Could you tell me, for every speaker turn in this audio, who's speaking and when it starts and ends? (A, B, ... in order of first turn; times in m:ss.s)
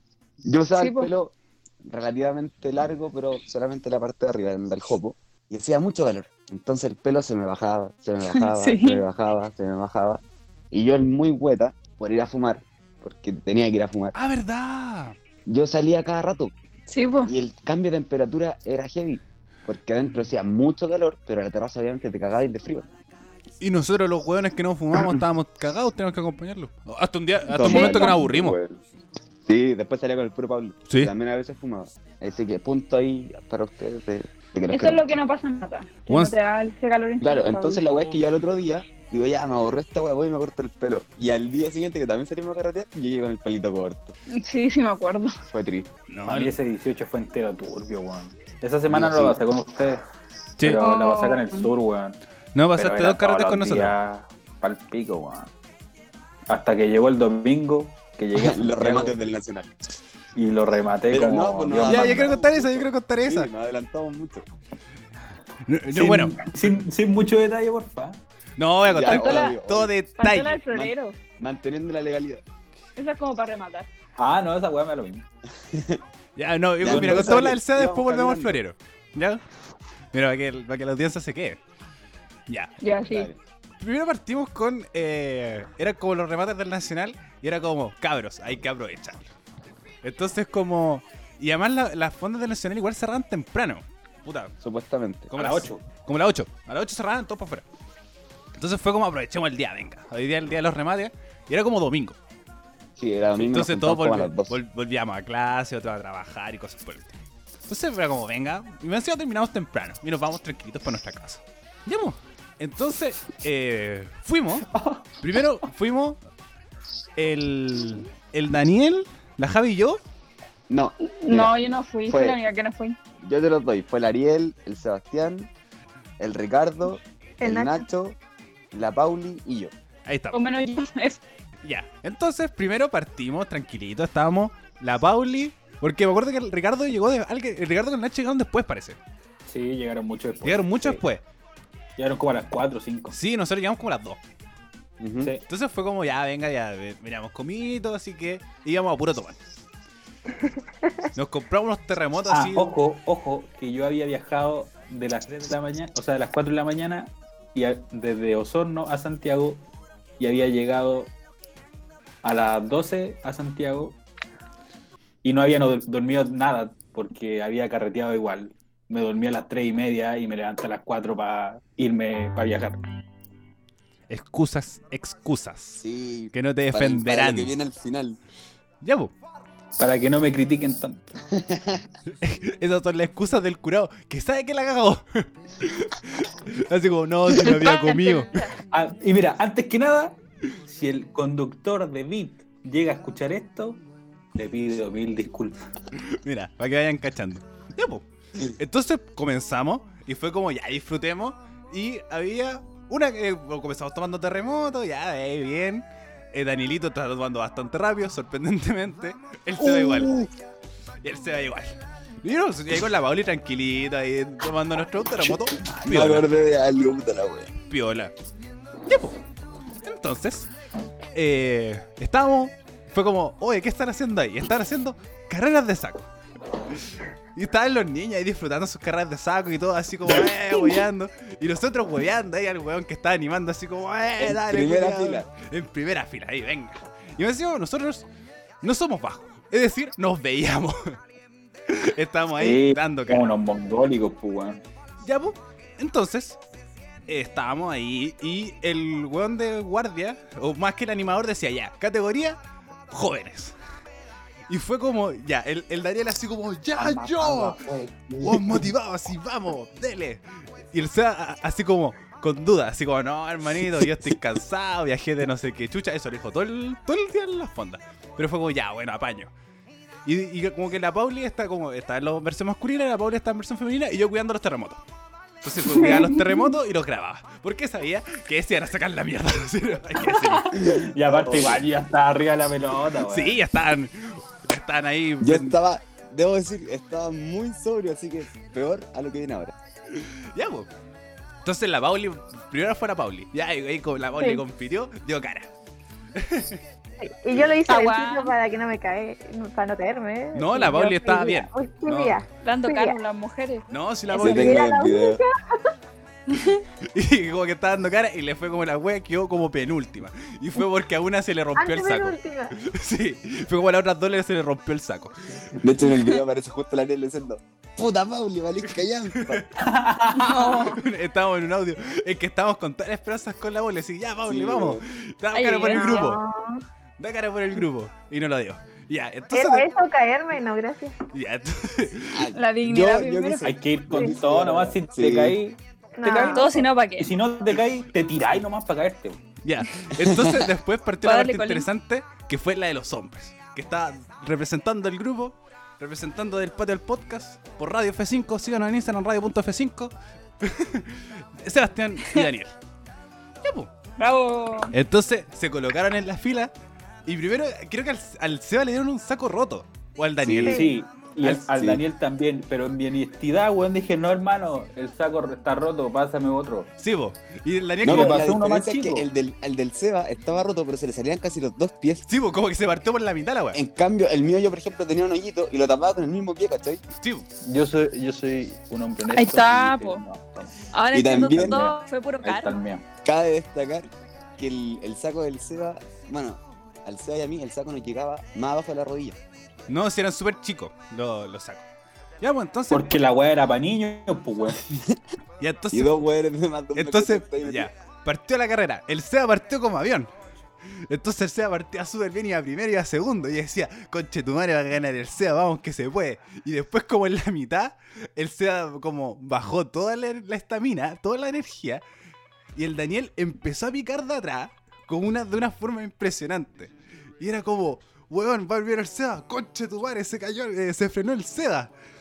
0:00.4-0:14.2 A
0:00.8-0:01.1 B
0:08.3-0:09.0 B
0:14.2-0:15.2 C
0:15.5-0:16.5 A
0:16.9-0:17.3 B
0:17.2-0:22.9 A
0:23.6-0:28.6 C
0:27.5-0:28.8 A
0:27.6-0:28.2 B
0:29.5-0:35.2 A
0:34.7-0:38.0 B
0:36.1-0:36.4 C
0:37.2-0:44.2 A
0:44.3-0:45.4 B
0:45.5-0:45.9 A
0:46.1-0:46.5 C
0:46.3-0:50.0 D
0:48.9-0:49.4 A
0:50.6-0:52.2 D
0:50.8-0:51.7 B
0:52.6-0:54.0 C
0:52.8-0:55.5 D
0:56.5-0:59.2 D
0:58.3-0:59.8 A
1:00.4-1:02.3 D
1:01.1-1:04.5 A
1:01.8-1:03.5 C
1:05.7-1:06.5 C
1:05.9-1:08.2 D
1:08.6-1:10.7 C
1:08.8-1:09.9 A
1:09.0-1:09.6 B
1:10.2-1:11.2 B
1:10.7-1:12.4 A
1:13.0-1:13.9 B
1:14.2-1:15.3 D
1:15.7-1:16.0 A
1:16.4-1:19.4 C
1:16.8-1:18.6 A
1:16.8-1:17.5 D
1:20.1-1:21.6 C
1:22.5-1:22.7 C
1:22.8-1:23.3 B
1:23.1-1:23.4 A
1:23.8-1:29.2 C
1:30.0-1:34.5 C
1:34.6-1:35.3 A
1:35.3-1:37.6 C
1:35.4-1:35.8 D
1:38.6-1:42.2 C
1:43.0-1:44.6 A
1:43.4-1:47.1 C
1:47.7-1:56.2 C
1:54.7-1:55.0 D
1:57.2-2:00.0 C
2:00.7-2:02.4 A
2:01.0-2:03.0 B
2:03.2-2:05.5 A
2:06.2-2:08.2 A
2:07.4-2:07.8 E
2:08.7-2:09.7 A
2:10.1-2:10.4 C
2:10.3-2:11.2 B
2:11.6-2:19.0 C
2:19.5-2:21.0 D
2:20.4-2:21.2 C
2:22.0-2:23.2 D
2:23.1-2:24.2 C
2:25.0-2:25.3 A
2:25.5-2:29.4 C
2:31.2-2:32.7 C
2:32.3-2:39.6 D
2:40.2-2:41.1 D
2:42.2-2:44.0 D
2:45.2-2:52.8 D
2:54.1-2:57.6 C
2:55.8-2:58.2 A
2:58.8-2:59.1 C
2:59.8-3:01.0 D
3:01.3-3:01.8 A
3:02.2-3:08.4 C
3:07.4-3:08.6 B
3:08.7-3:13.8 D
3:14.4-3:15.6 D
3:16.0-3:30.1 C
3:29.6-3:30.3 A
3:31.0-3:36.3 C
3:35.2-3:37.5 A
3:37.7-3:38.1 C
3:38.9-3:39.2 C
3:39.8-3:40.5 C
3:41.1-3:46.1 C
3:47.4-3:58.1 C
3:54.2-3:55.3 A
3:58.6-4:01.0 C
4:01.7-4:03.3 C
4:02.4-4:04.6 D
4:05.0-4:06.4 C
4:07.1-4:12.4 C
4:12.9-4:13.6 C
4:14.5-4:17.6 C
4:16.8-4:17.9 D
4:17.7-4:18.7 A
4:18.2-4:29.3 C
4:30.0-4:34.8 C
4:35.4-4:40.6 C
4:35.8-4:36.3 B
4:40.4-4:43.4 D
4:40.6-4:41.6 A
4:43.1-4:45.6 C
4:45.2-4:49.5 A
4:50.0-4:50.7 C
4:51.4-4:55.5 C
4:56.2-4:56.6 C
4:57.0-5:03.0 E
4:57.7-4:58.4 B
5:00.3-5:02.2 C
5:02.4-5:04.2 B
5:03.7-5:04.8 C
5:04.1-5:05.6 E
5:04.2-5:05.2 A
5:06.3-5:06.6 B
5:06.9-5:15.6 C
5:11.6-5:12.6 E
5:15.6-5:19.5 A
5:19.2-5:19.4 C
5:19.6-5:20.7 D
5:20.1-5:20.8 B
5:20.5-5:26.2 C
5:24.3-5:24.8 A
5:25.3-5:26.2 B
5:25.7-5:26.6 E
5:27.0-5:29.7 C
5:29.3-5:31.0 E
5:31.1-5:32.3 C
5:32.1-5:35.4 A
5:32.3-5:33.5 B
5:33.4-5:39.2 D
5:36.0-5:36.6 E
5:36.0-5:37.1 B
5:39.4-5:52.5 C
5:40.0-5:40.5 A
5:41.0-5:41.7 B
5:53.4-5:53.7 C
5:54.0-5:54.8 B
5:54.7-5:56.5 C
5:57.1-6:00.7 C
6:00.2-6:00.7 A
6:00.5-6:06.7 D
6:01.3-6:01.8 A
6:06.8-6:08.3 C
6:07.8-6:12.1 A
6:07.8-6:09.1 D
6:12.1-6:13.6 C
6:13.5-6:16.8 A
6:16.9-6:17.3 C
6:17.4-6:20.6 D
6:19.1-6:20.0 B
6:20.7-6:22.6 B
6:20.9-6:21.7 A
6:21.2-6:22.8 D
6:23.0-6:23.9 A
6:24.4-6:29.2 A
6:29.7-6:31.6 C
6:32.2-6:32.9 C
6:32.7-6:34.6 D
6:34.7-6:35.0 A
6:35.4-6:36.0 C
6:35.7-6:37.7 A
6:36.7-6:40.1 C
6:40.7-6:51.8 C
6:52.6-7:01.7 C